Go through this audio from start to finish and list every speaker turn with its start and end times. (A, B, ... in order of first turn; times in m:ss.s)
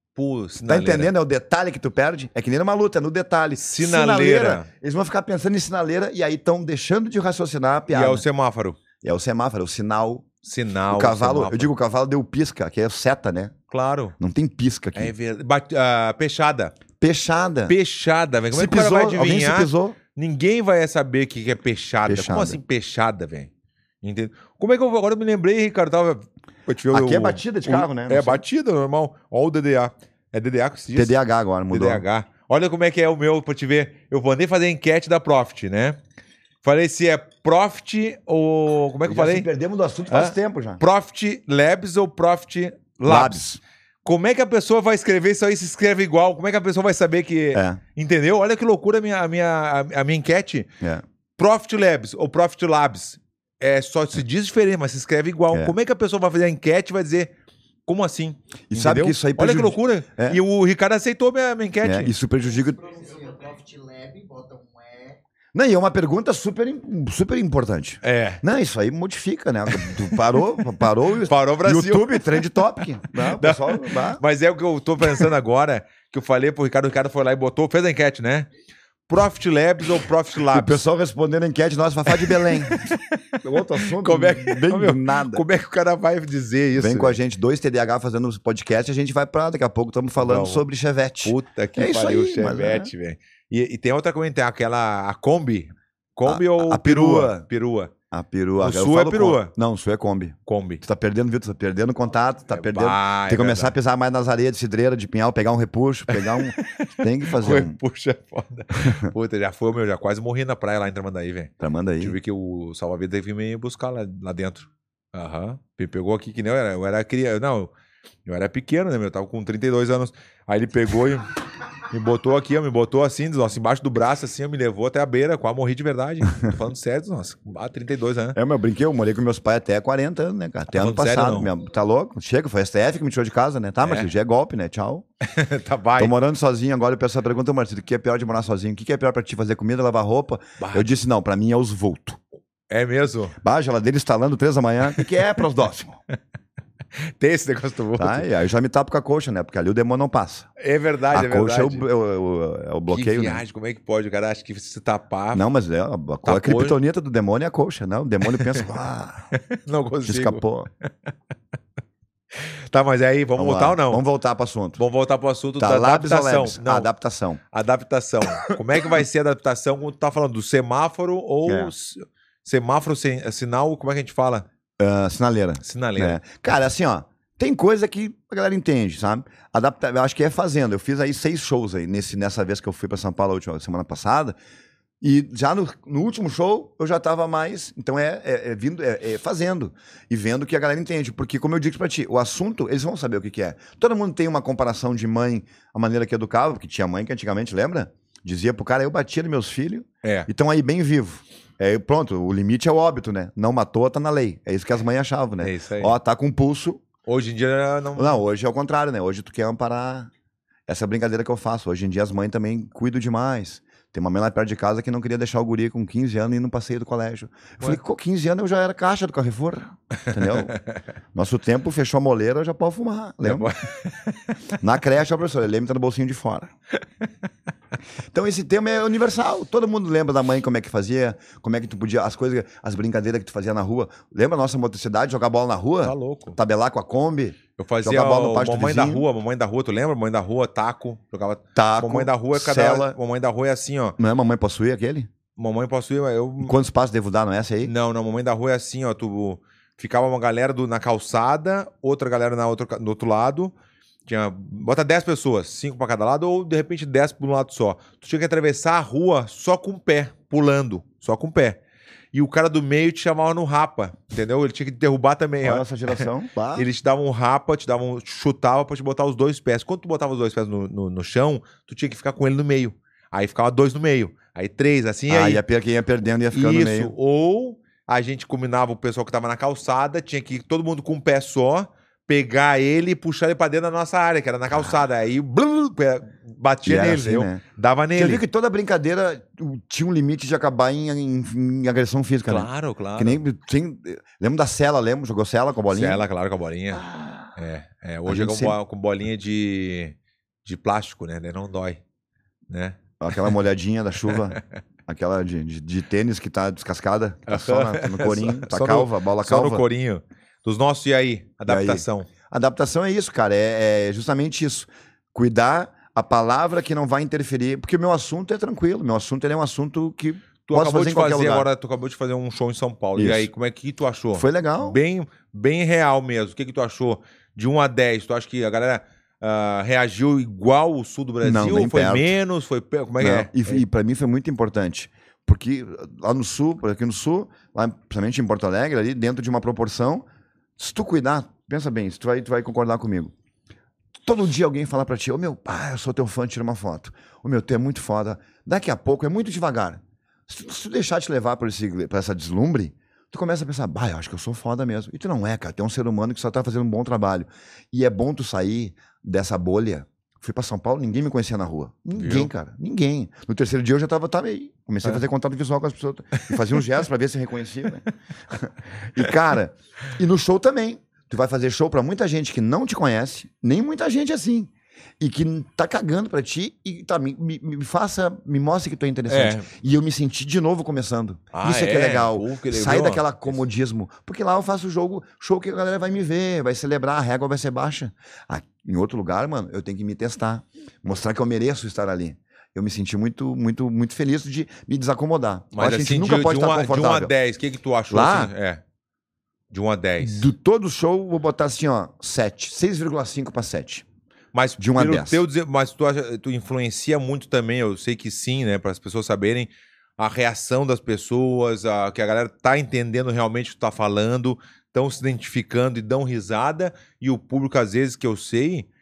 0:00.2-0:01.1 A
0:00.6-0:08.2 B
0:03.6-0:04.7 A
0:07.9-0:08.8 A
0:09.0-0:10.3 B
0:10.4-0:11.7 A
0:10.9-0:13.5 B
0:13.7-0:14.1 A
0:14.2-0:15.1 B
0:14.9-0:16.8 A
0:17.0-0:17.7 B
0:17.7-0:23.5 A
0:18.5-0:20.0 B
0:22.0-0:22.6 B
0:24.0-0:31.2 A
0:26.9-0:28.4 B
0:30.9-0:32.0 B
0:31.7-0:36.0 A
0:36.6-0:39.5 A
0:39.0-0:40.8 B
0:40.1-0:43.4 A
0:43.0-0:43.6 B
0:44.0-0:50.7 A
0:47.5-0:47.8 B
0:51.4-0:57.3 A
0:57.9-1:02.1 A
0:58.7-1:00.4 B
1:01.8-1:02.8 B
1:02.5-1:05.2 C
1:05.5-1:14.2 B
1:08.0-1:08.4 A
1:09.7-1:10.6 A
1:11.2-1:12.5 A
1:13.2-1:18.5 A
1:15.0-1:15.3 B
1:19.1-1:20.8 A
1:20.5-1:25.4 B
1:22.1-1:23.2 A
1:23.8-1:27.2 A
1:26.7-1:32.9 B
1:30.2-1:30.6 A
1:31.2-1:37.9 A
1:36.2-1:37.4 B
1:38.1-1:47.8 B
1:38.6-1:39.5 A
1:40.5-1:40.8 A
1:42.5-1:43.7 A
1:46.1-1:57.7 A
1:48.8-1:49.1 B
1:51.6-1:52.2 B
1:58.2-2:01.3 A
2:01.9-2:08.4 A
2:08.3-2:15.0 B
2:10.7-2:11.5 A
2:13.8-2:14.1 A
2:15.2-2:16.1 A
2:16.0-2:22.2 B
2:20.6-2:20.9 A
2:22.7-2:23.3 A
2:23.4-2:26.0 B
2:27.0-2:28.2 A
2:28.0-2:30.5 B
2:30.6-2:31.9 A
2:31.1-2:33.4 B
2:32.9-2:35.5 A
2:35.3-2:39.3 B
2:36.2-2:36.8 A
2:38.3-2:38.5 A
2:39.3-2:40.9 A
2:40.0-2:40.7 B
2:42.3-2:44.0 A
2:43.4-2:44.8 B
2:44.8-2:46.9 A
2:45.6-2:47.4 B
2:47.5-2:54.4 A
2:51.4-2:51.7 B
2:54.8-3:04.4 B
2:55.6-2:56.2 A
3:05.0-3:26.8 B
3:20.0-3:20.3 A
3:25.4-3:26.0 A
3:27.1-3:28.2 A
3:28.0-3:30.1 B
3:30.7-3:40.6 B
3:40.1-3:40.8 A
3:41.1-3:43.5 B
3:43.2-3:44.4 A
3:44.6-3:46.5 B
3:48.1-3:59.0 B
3:55.8-3:56.4 A
3:57.6-4:04.0 A
4:01.5-4:03.0 B
4:04.0-4:05.1 B
4:05.4-4:06.5 A
4:06.4-4:07.7 B
4:07.6-4:13.5 A
4:14.0-4:21.6 A
4:22.1-4:35.4 A
4:25.4-4:26.7 B
4:35.1-4:36.9 B
4:36.3-4:48.2 A
4:46.6-4:47.4 B
4:47.9-4:56.0 B
4:52.3-4:53.2 A
4:55.7-5:01.8 A
4:56.7-4:57.3 B
4:58.0-4:58.6 B
5:02.5-5:03.3 A
5:03.0-5:09.6 B
5:04.1-5:04.4 A
5:07.3-5:12.1 A
5:11.4-5:21.5 B
5:20.4-5:33.6 A
5:23.0-5:23.3 B
5:24.1-5:24.8 B
5:31.2-5:32.2 B
5:33.0-5:40.0 B
5:40.6-5:43.1 B
5:44.0-6:37.1 B
6:01.9-6:02.3 A
6:19.1-6:19.5 A
6:21.3-6:23.4 A
6:35.5-6:38.6 A
6:37.9-6:38.3 B
6:39.5-6:40.3 A
6:40.0-6:43.8 B
6:44.3-6:58.7 A
6:44.6-6:45.2 B